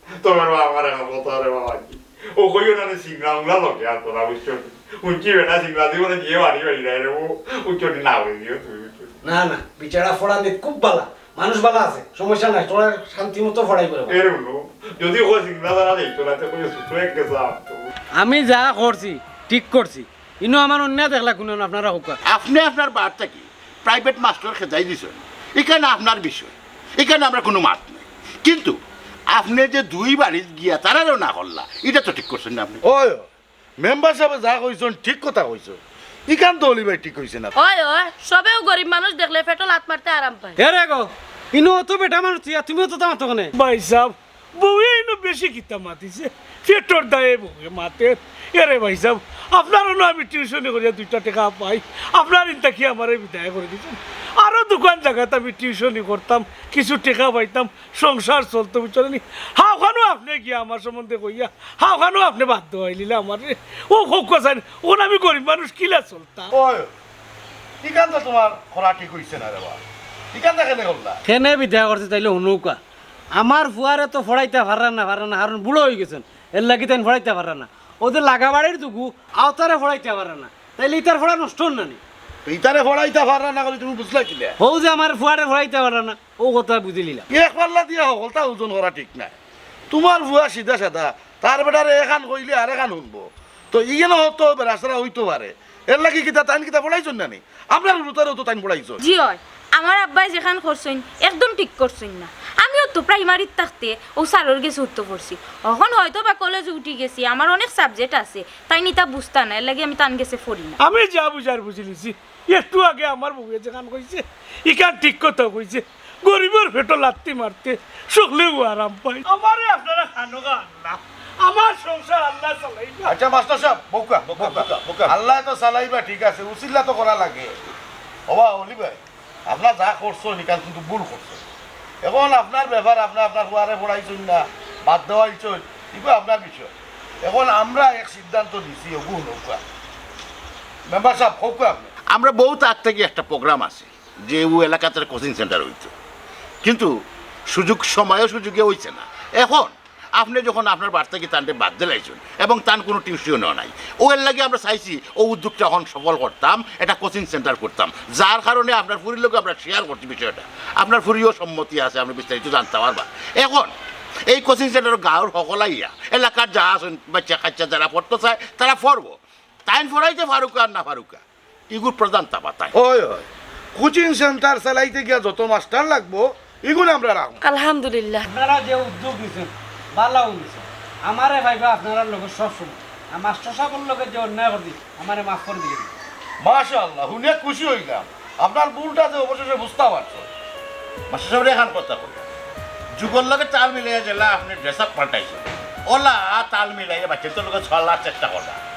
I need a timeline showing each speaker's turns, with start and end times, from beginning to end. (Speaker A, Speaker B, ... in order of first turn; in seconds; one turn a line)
Speaker A: 0.2-9.2
Speaker B: 9.2-14.2
Speaker A: 14.1-17.9
Speaker B: 18.2-22.2
Speaker C: 22.2-28.8
Speaker C: 29.3-32.8
Speaker D: 32.8-33.3
Speaker D: 33.8-37.5
Speaker E: 37.6-40.6
Speaker B: 40.6-43.5
Speaker F: 43.6-66.5
Speaker D: 66.5-66.9
Speaker D: 67.8-69.8
Speaker D: 70.3-71.2
Speaker B: 71.2-72.8
Speaker B: 73.3-82.0
Speaker D: 82.5-84.6
Speaker B: 84.6-87.3
Speaker D: 87.3-89.3
Speaker D: 89.9-99.0
Speaker G: 99.0-110.8
Speaker F: 110.8-123.2
Speaker D: 123.1-127.5
Speaker C: 124.3-125.2
Speaker D: 128.3-131.4
Speaker D: 132.0-136.7
Speaker D: 137.2-139.6
Speaker D: 140.9-141.9
Speaker C: 142.1-145.9
Speaker C: 146.6-146.9
Speaker C: 147.5-163.7
Speaker C: 164.3-172.8
Speaker D: 172.7-177.4
Speaker E: 177.4-178.3
Speaker B: 178.3-185.9
Speaker D: 186.4-190.3
Speaker C: 191.1-192.2
Speaker C: 193.0-198.6